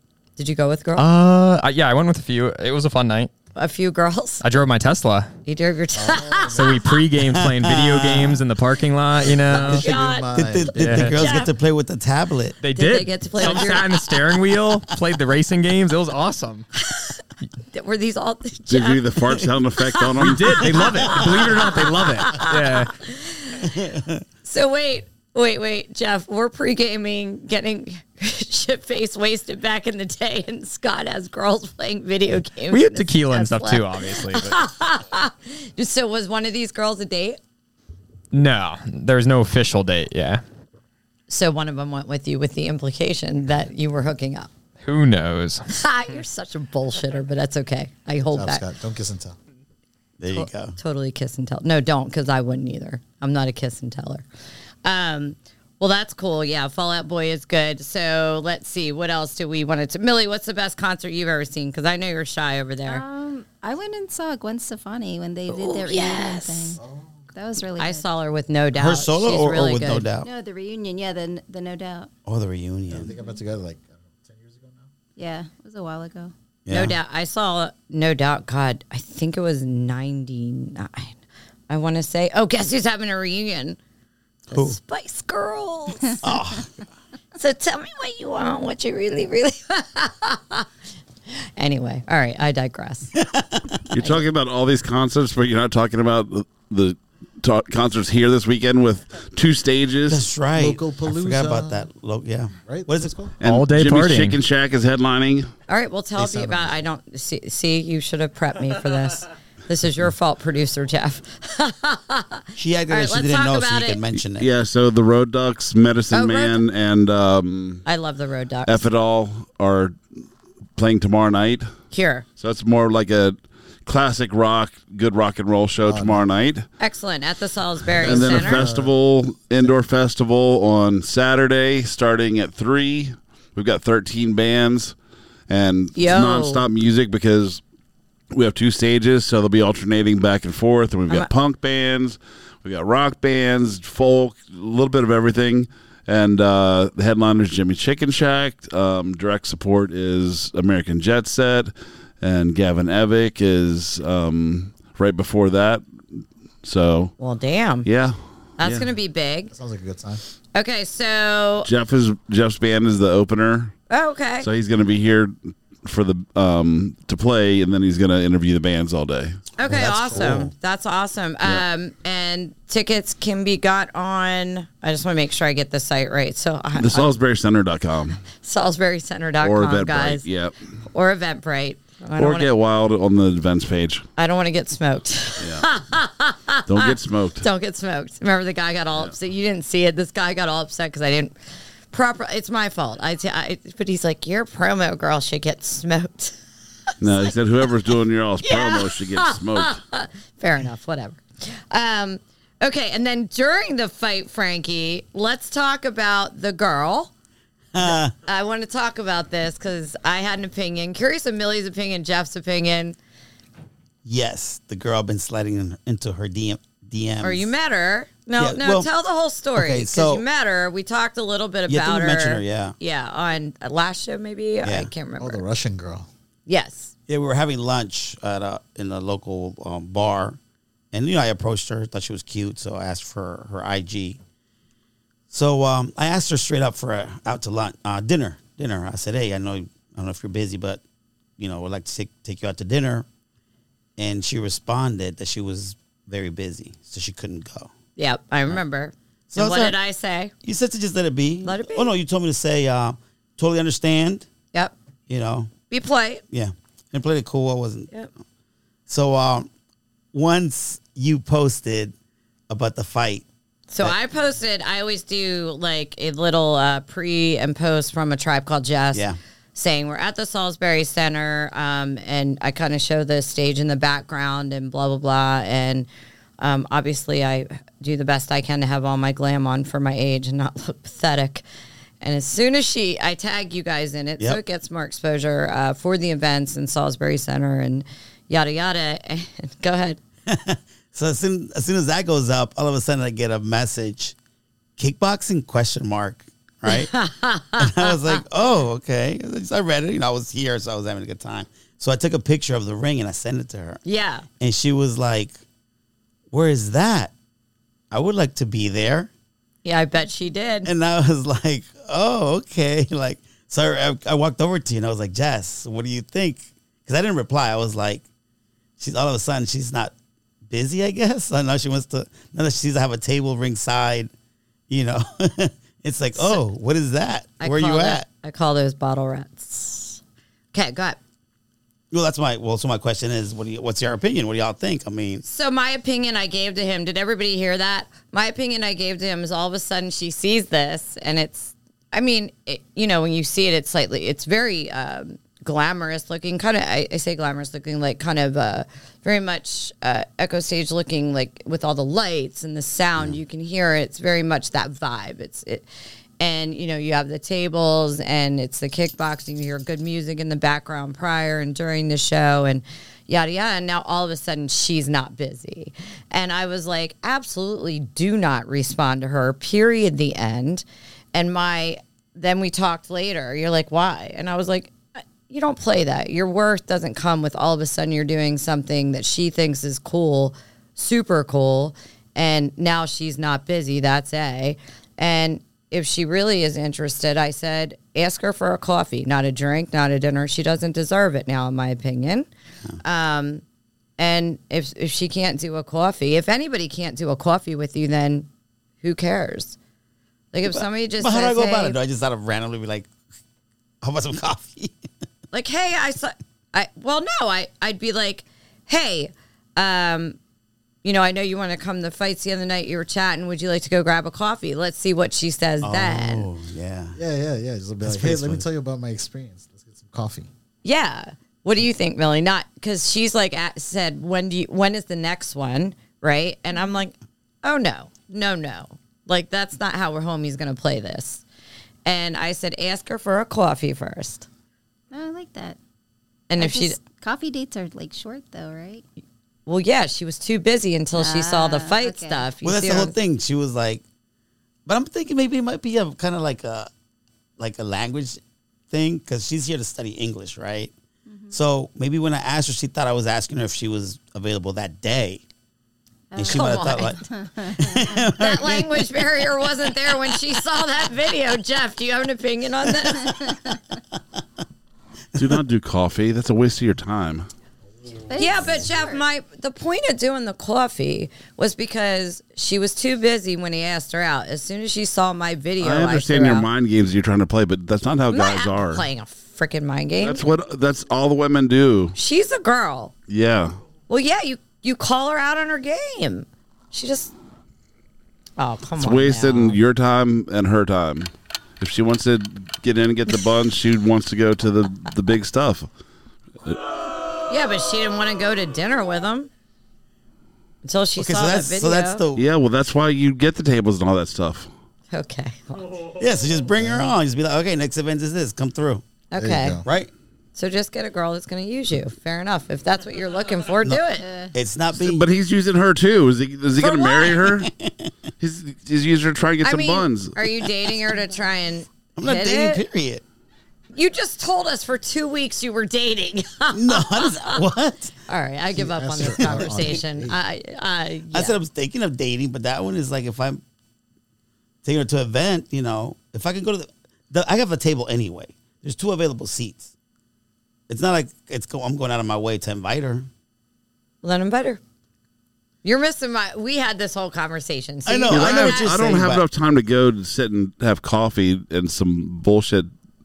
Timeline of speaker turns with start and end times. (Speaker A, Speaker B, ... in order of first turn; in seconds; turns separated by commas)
Speaker A: 0.4-1.1, Speaker B: 1.0-3.3, Speaker A: 3.5-4.4, Speaker B: 4.4-5.3, Speaker A: 5.4-6.9, Speaker C: 5.9-6.8, Speaker B: 6.5-9.9, Speaker D: 7.2-8.4, Speaker A: 9.5-10.3, Speaker C: 9.6-11.3, Speaker D: 9.8-12.6, Speaker B: 10.8-11.2, Speaker A: 11.1-11.5, Speaker B: 12.6-16.6, Speaker A: 12.7-14.1, Speaker A: 16.8-17.2, Speaker A: 17.7-19.2, Speaker E: 18.7-20.9, Speaker A: 19.8-23.8, Speaker B: 20.1-23.0, Speaker D: 21.1-22.4, Speaker D: 23.6-24.2, Speaker A: 24.4-37.4, Speaker B: 32.7-34.6, Speaker B: 38.3-40.4, Speaker A: 41.3-44.5, Speaker B: 44.8-45.6, Speaker A: 45.7-48.6, Speaker C: 48.2-49.4, Speaker D: 50.2-50.8, Speaker A: 50.3-54.2, Speaker A: 54.8-63.0, Speaker F: 62.9-66.8, Speaker A: 65.5-66.8, Speaker C: 66.8-67.2, Speaker F: 67.3-68.1, Speaker A: 67.8-70.1, Speaker D: 68.8-70.3, Speaker F: 70.2-72.1, Speaker D: 72.3-73.1, Speaker C: 72.9-74.9, Speaker F: 73.1-73.4, Speaker F: 75.2-76.3, Speaker D: 76.7-76.9, Speaker A: 76.7-81.2, Speaker A: 81.7-83.8, Speaker D: 84.5-84.8, Speaker A: 84.5-86.3, Speaker D: 86.2-86.7, Speaker A: 87.3-90.7, Speaker A: 91.6-93.1, Speaker D: 93.2-93.8, Speaker E: 93.9-100.3, Speaker D: 100.1-103.2, Speaker C: 100.5-101.9, Speaker C: 102.6-103.3, Speaker E: 103.4-105.5, Speaker B: 103.4-104.4, Speaker A: 105.7-114.0, Speaker C: 106.2-106.8, Speaker D: 112.6-114.5, Speaker E: 114.3-117.8, Speaker A: 116.1-116.6, Speaker A: 117.8-118.9, Speaker E: 118.7-120.0, Speaker E: 120.8-121.7, Speaker A: 121.9-122.2, Speaker E: 122.3-126.7, Speaker C: 125.8-126.2, Speaker A: 126.8-128.7, Speaker C: 127.9-128.9, Speaker E: 128.0-134.9, Speaker E: 135.5-137.6, Speaker A: 135.9-136.6, Speaker E: 138.3-155.8, Speaker E: 156.6-157.1, Speaker A: 157.2-157.9, Speaker E: 157.8-158.8, Speaker A: 158.6-159.5, Speaker C: 159.5-160.2, Speaker A: 160.6-161.7, Speaker E: 161.7-163.8, Speaker A: 163.9-164.5, Speaker E: 164.4-169.4, Speaker A: 169.6-177.1, Speaker D: 169.6-170.5, Speaker E: 176.8-178.2, Speaker A: 178.4-180.3, Speaker E: 179.4-180.6, Speaker A: 180.9-182.5, Speaker E: 182.2-184.1, Speaker A: 184.2-191.3, Speaker E: 185.4-185.7, Speaker E: 186.7-187.4, Speaker A: 191.9-196.4, Speaker E: 197.0-199.8, Speaker A: 197.0-197.3, Speaker A: 198.4-207.1, Speaker D: 207.8-208.1, Speaker A: 207.8-213.0, Speaker D: 214.0-217.5, Speaker A: 217.2-225.4, Speaker D: 218.4-218.9, Speaker D: 219.6-220.2, Speaker D: 221.7-222.8, Speaker D: 224.6-224.9, Speaker C: 225.2-226.1, Speaker A: 226.5-226.9, Speaker D: 227.1-230.4, Speaker D: 230.9-234.2, Speaker D: 235.3-240.8, Speaker D: 241.4-243.1, Speaker D: 244.0-247.7, Speaker A: 248.0-250.3, Speaker D: 249.3-249.8, Speaker D: 250.4-254.3, Speaker A: 251.4-251.9, Speaker D: 255.1-255.5, Speaker A: 255.7-256.2, Speaker D: 256.3-257.9, Speaker D: 258.9-259.5, Speaker D: 260.1-261.9, Speaker D: 262.5-263.3, Speaker A: 263.7-275.9, Speaker A: 276.4-281.4, Speaker A: 282.0-290.0, Speaker D: 290.3-294.1, Speaker D: 294.8-296.9, Speaker A: 296.7-298.2, Speaker D: 297.6-303.8, Speaker A: 303.8-304.2, Speaker D: 304.4-305.4, Speaker D: 306.3-307.1, Speaker D: 307.9-309.1, Speaker A: 309.6-310.7, Speaker D: 310.6-318.1, Speaker D: 318.8-319.9, Speaker D: 320.5-324.1, Speaker D: 324.7-328.1, Speaker A: 326.1-326.4, Speaker A: 327.4-330.0, Speaker A: 330.5-331.0, Speaker D: 331.9-335.2, Speaker A: 335.2-355.7, Speaker A: 356.2-392.3, Speaker A: 392.8-393.4, Speaker A: 394.0-398.3, Speaker A: 398.8-399.6, Speaker A: 400.3-401.8, Speaker D: 400.5-402.9, Speaker D: 403.8-404.8, Speaker A: 405.3-410.2, Speaker A: 410.8-416.3, Speaker D: 415.6-417.0, Speaker C: 416.9-420.3, Speaker D: 417.8-418.4, Speaker A: 420.6-431.2, Speaker A: 431.8-434.3, Speaker F: 434.9-435.6, Speaker A: 436.3-436.8, Speaker F: 436.4-438.8, Speaker A: 439.4-442.9, Speaker F: 440.9-442.3, Speaker D: 442.4-443.8, Speaker D: 444.7-446.7, Speaker D: 447.4-450.7, Speaker F: 451.1-451.4, Speaker D: 451.3-455.2, Speaker F: 456.1-458.1, Speaker D: 456.1-458.8, Speaker A: 456.2-457.0, Speaker A: 458.1-463.2, Speaker F: 463.1-463.6, Speaker D: 465.2-465.4, Speaker E: 465.2-467.3, Speaker F: 468.1-469.0, Speaker A: 468.2-476.5, Speaker E: 475.6-478.8, Speaker A: 478.1-480.2, Speaker E: 480.0-481.9, Speaker A: 481.9-482.9, Speaker E: 483.1-483.6, Speaker A: 483.9-487.1, Speaker A: 488.4-489.6, Speaker E: 488.8-495.7, Speaker A: 497.3-499.3, Speaker A: 500.6-502.0, Speaker D: 500.9-502.3, Speaker E: 502.1-504.5, Speaker A: 504.9-505.8, Speaker D: 506.0-508.8, Speaker C: 506.6-506.9, Speaker A: 509.1-509.6, Speaker C: 509.1-509.7, Speaker D: 509.6-509.9, Speaker A: 510.3-514.1, Speaker F: 514.0-514.3, Speaker D: 514.3-515.0, Speaker E: 514.7-517.5, Speaker A: 516.6-517.1, Speaker D: 517.0-517.9, Speaker E: 518.2-520.3, Speaker A: 519.4-522.6, Speaker D: 522.0-523.0, Speaker A: 523.7-527.4, Speaker D: 526.5-527.9, Speaker A: 528.1-531.4, Speaker C: 528.5-530.2, Speaker D: 529.0-529.7, Speaker D: 531.1-533.4, Speaker D: 534.6-539.7, Speaker D: 540.7-543.1, Speaker A: 544.0-544.6, Speaker A: 545.6-549.0, Speaker D: 547.9-549.2, Speaker E: 548.1-552.7